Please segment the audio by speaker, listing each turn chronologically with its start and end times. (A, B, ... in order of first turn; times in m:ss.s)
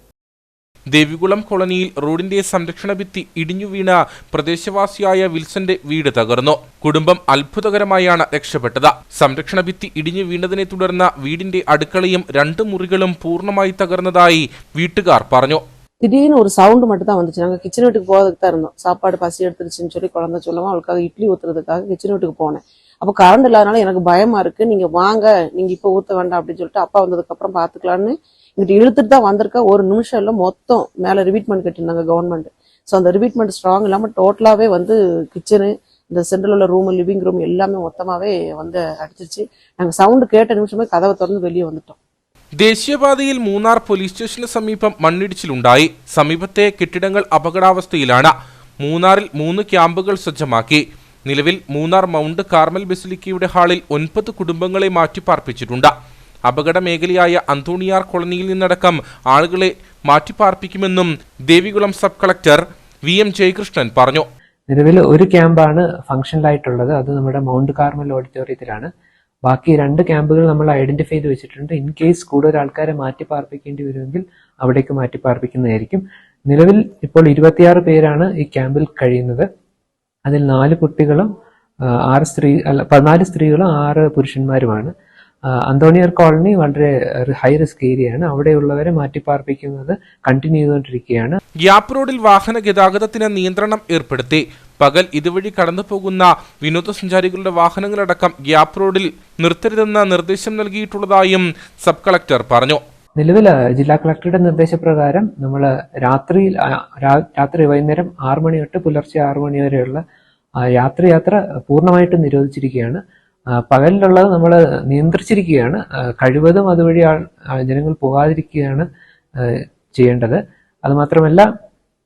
0:00.9-0:15.6 A
0:16.0-0:42.0 B
0:42.6-0:55.9 A
0:56.5-1:04.3 A
1:04.7-1:08.9 C
1:09.4-1:19.5 C
1:20.2-1:21.3 C
1:22.1-1:24.9 C
1:25.7-1:31.4 C
1:31.6-1:42.8 A
1:43.2-1:50.0 C
1:50.7-1:53.0 C
1:53.6-1:58.9 C
1:59.4-2:01.5 C